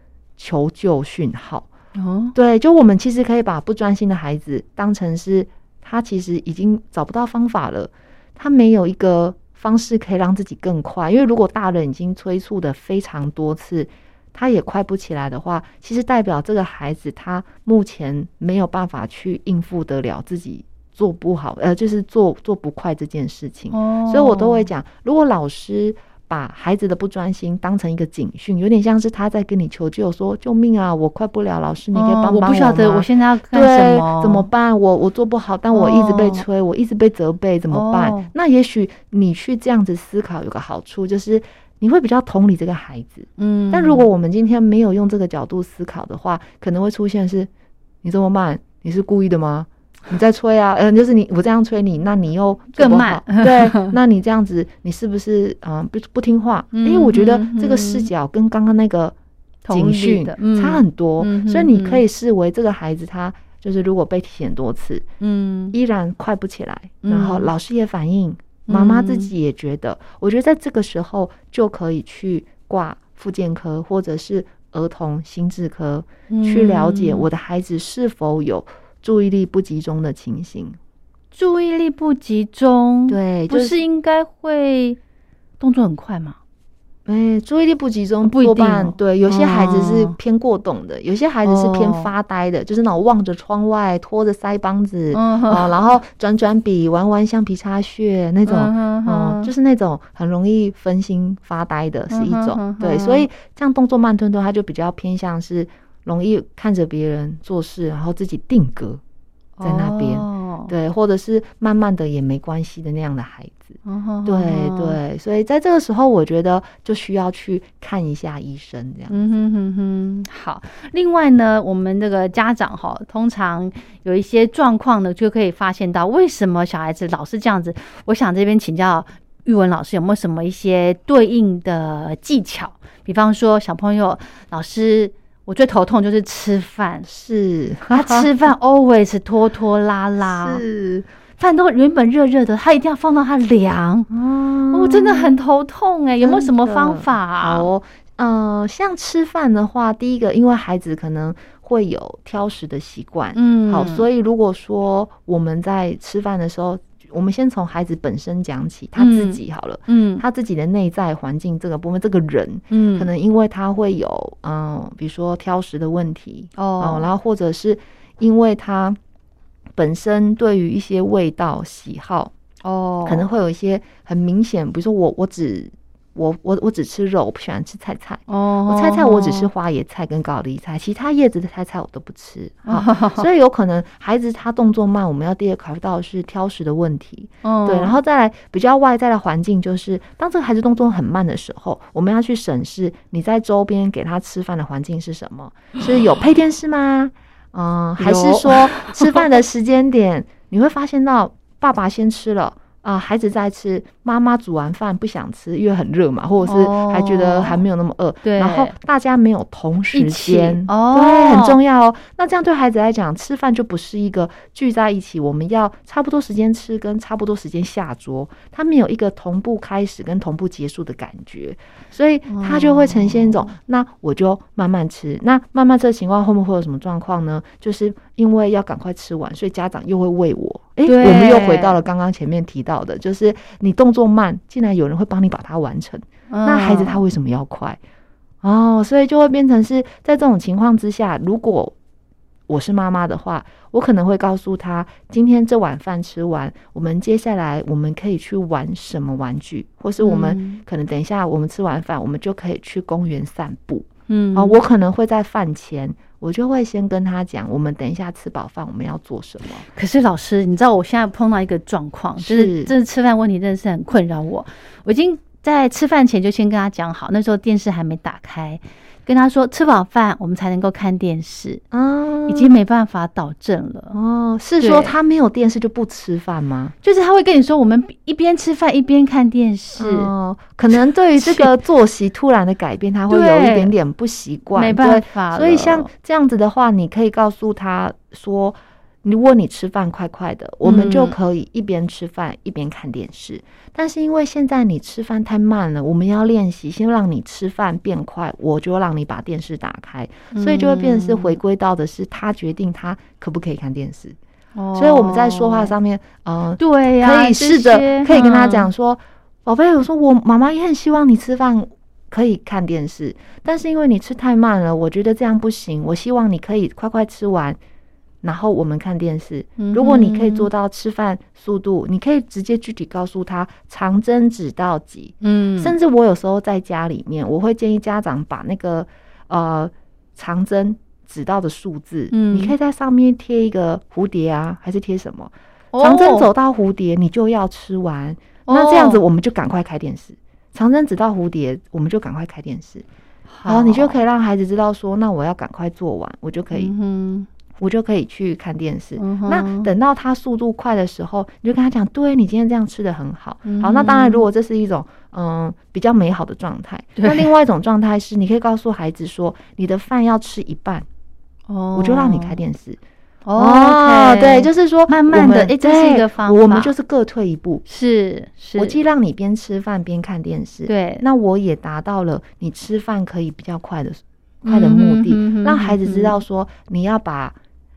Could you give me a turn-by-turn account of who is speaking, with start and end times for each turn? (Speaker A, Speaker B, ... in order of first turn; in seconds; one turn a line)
Speaker A: 0.4-1.7
Speaker B: 1.9-2.3
Speaker A: 2.3-47.5
Speaker B: 23.7-24.7
Speaker B: 31.9-34.5
Speaker B: 35.7-36.4
Speaker B: 37.7-38.3
Speaker B: 43.4-44.1
Speaker A: 48.0-59.1
Speaker B: 52.8-54.0
Speaker B: 56.7-58.1
Speaker B: 59.6-62.0
Speaker A: 59.7-65.0
Speaker B: 65.2-65.7
Speaker A: 65.7-80.8
Speaker B: 67.0-67.5
Speaker B: 68.7-69.3
Speaker B: 76.3-77.2
Speaker B: 81.3-85.0
Speaker A: 83.1-83.8
Speaker B: 85.6-86.4
Speaker A: 87.0-109.0
Speaker B: 88.2-90.2
Speaker B: 91.4-92.1
Speaker B: 95.1-95.7
Speaker B: 98.4-99.5
Speaker B: 102.1-103.3
Speaker B: 109.6-110.7
Speaker A: 109.6-119.1
Speaker B: 113.8-115.0
Speaker B: 119.1-137.1
Speaker A: 137.1-138.3
Speaker B: 137.9-140.6
Speaker A: 140.2-141.1
Speaker B: 141.4-144.1
Speaker A: 144.1-145.3
Speaker B: 144.7-147.7
Speaker A: 146.2-169.0
Speaker B: 153.3-154.1
Speaker B: 159.0-160.2
Speaker B: 162.7-163.1
Speaker B: 166.6-167.0
Speaker A: 169.7-172.3
Speaker B: 172.6-173.3
Speaker A: 173.1-237.8
Speaker B: 178.3-179.5
Speaker B: 182.7-183.3
Speaker B: 187.4-187.9
Speaker B: 198.0-199.2
Speaker B: 206.4-207.6
Speaker B: 208.2-208.7
Speaker B: 209.9-211.6
Speaker B: 222.3-223.4
Speaker B: 230.8-231.8
Speaker B: 236.3-237.0
Speaker A: 238.4-241.7
Speaker A: 242.5-259.6
Speaker B: 250.0-250.6
Speaker B: 254.1-254.6
Speaker B: 259.6-271.6
Speaker A: 262.2-262.7
Speaker A: 271.7-272.5
Speaker B: 272.2-273.9
Speaker A: 273.9-276.7
Speaker B: 274.6-274.9
Speaker B: 276.8-280.1
Speaker A: 279.8-304.2
Speaker B: 281.2-281.5
Speaker B: 283.1-283.7
Speaker B: 284.5-285.9
Speaker B: 290.6-291.1
Speaker B: 300.3-301.4
Speaker B: 304.6-305.7
Speaker A: 304.7-317.6
Speaker B: 306.6-308.7
Speaker A: 318.2-342.9
Speaker B: 319.6-320.5
Speaker B: 325.2-325.7
Speaker B: 332.1-332.5
Speaker B: 335.7-336.3
Speaker B: 338.4-339.0
Speaker B: 343.3-344.0
Speaker A: 343.4-346.7
Speaker B: 346.5-347.3
Speaker A: 347.6-360.9
Speaker B: 349.0-349.7
Speaker B: 353.4-354.2
Speaker B: 357.0-357.3
Speaker B: 361.5-362.4
Speaker A: 361.7-362.8
Speaker B: 363.2-366.7
Speaker A: 363.4-367.6
Speaker B: 367.6-368.8
Speaker A: 368.6-377.4
Speaker B: 370.7-371.0
Speaker B: 374.4-376.2